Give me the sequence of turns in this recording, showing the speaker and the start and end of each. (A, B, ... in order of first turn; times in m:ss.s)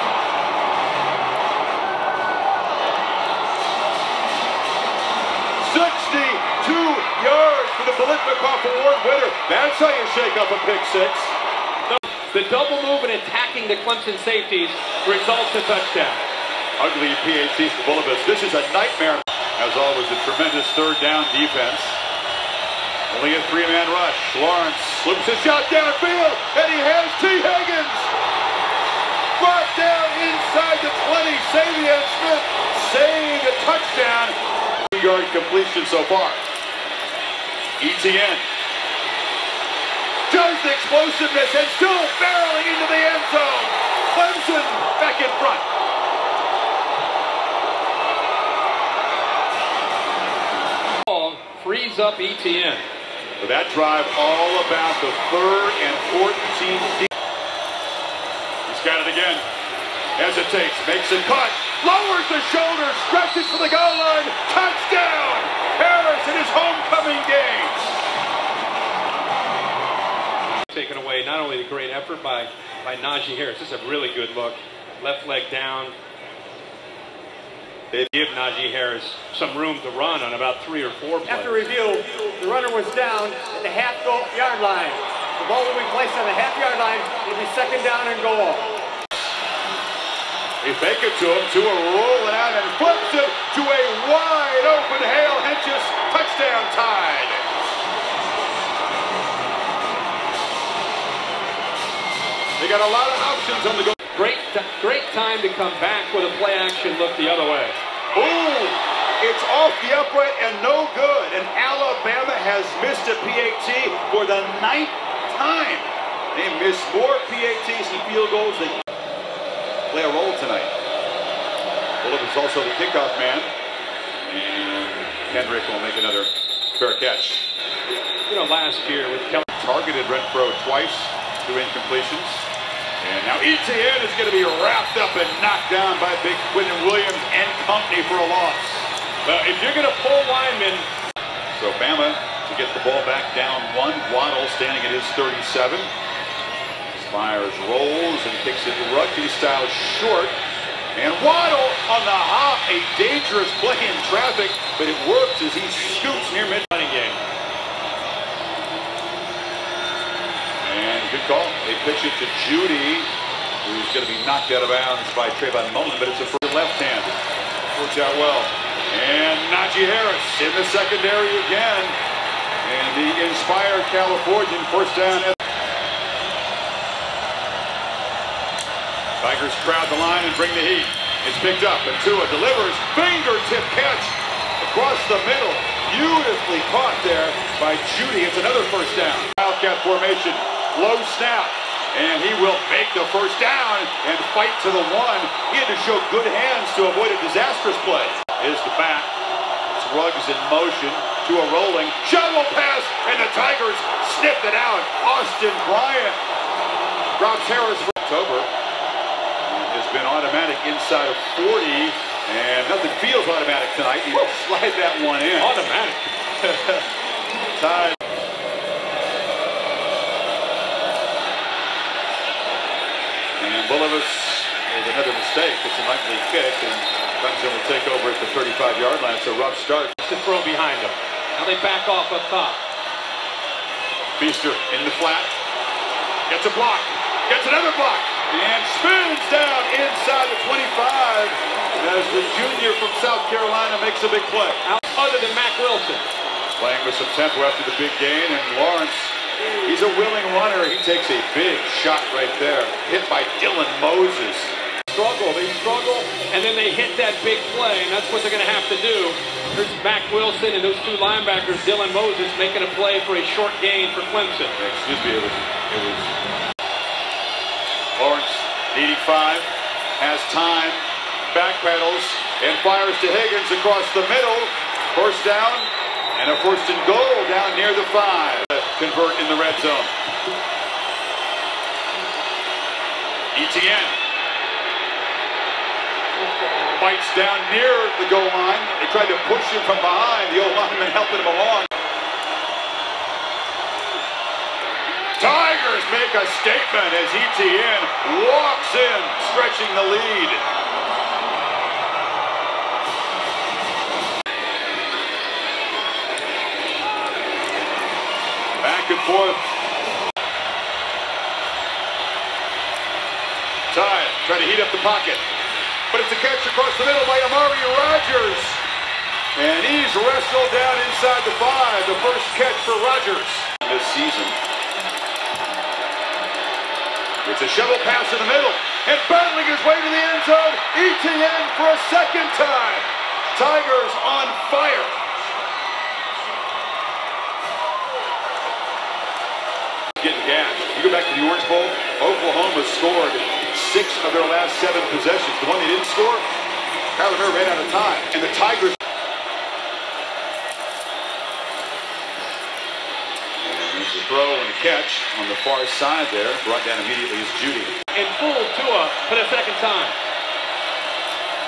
0:05.6-0:11.3 A
0:11.9-0:16.2 B
0:16.8-0:22.0 A
0:23.1-0:28.1 A
0:29.4-0:34.4 A
0:34.9-0:36.4 A
0:37.8-0:38.4 A
0:40.3-0:45.6 A
0:51.1-0:52.8 B
0:53.4-0:57.1 A
0:58.7-0:59.4 A
1:00.2-1:07.9 A
1:10.7-1:15.9 B
1:18.1-1:21.6 B
1:21.3-1:28.7 C
1:30.6-1:37.4 A
1:42.6-1:44.0 A
1:44.1-1:47.8 B
1:48.1-1:58.8 A
1:59.9-2:00.7 A
2:02.0-2:03.5 A
2:04.2-2:07.4 A
2:08.3-2:09.5 B
2:09.5-2:12.4 A
2:13.0-2:18.9 A
2:19.2-2:20.9 B
2:21.5-2:25.9 A
2:26.9-2:30.4 A
2:30.9-2:36.7 A
2:36.7-2:37.2 B
2:40.6-2:43.1 A
2:43.6-2:47.2 A
2:47.7-2:52.0 A
2:52.6-2:55.4 A
2:59.2-3:19.1 A
3:19.7-3:26.2 A
3:27.2-3:28.5 A
3:29.4-3:35.6 A
3:35.4-3:36.8 B
3:37.6-3:38.0 A
3:43.4-3:49.9 A
3:50.0-3:52.6 B
3:54.2-3:55.3 A
3:56.3-4:04.6 A
4:04.6-4:06.0 B
4:06.6-4:14.5 A
4:14.9-4:24.5 B
4:24.6-4:26.1 A
4:28.0-4:39.9 A
4:43.3-4:43.9 A
4:46.7-4:51.7 A
4:55.2-5:00.4 A
5:08.6-5:09.5 A
5:13.7-5:15.2 A
5:15.9-5:18.6 A
5:19.3-5:24.4 A
5:27.2-5:35.0 A
5:40.0-5:46.3 A
5:47.0-5:48.8 A
5:53.4-5:57.7 A
5:57.9-5:59.9 B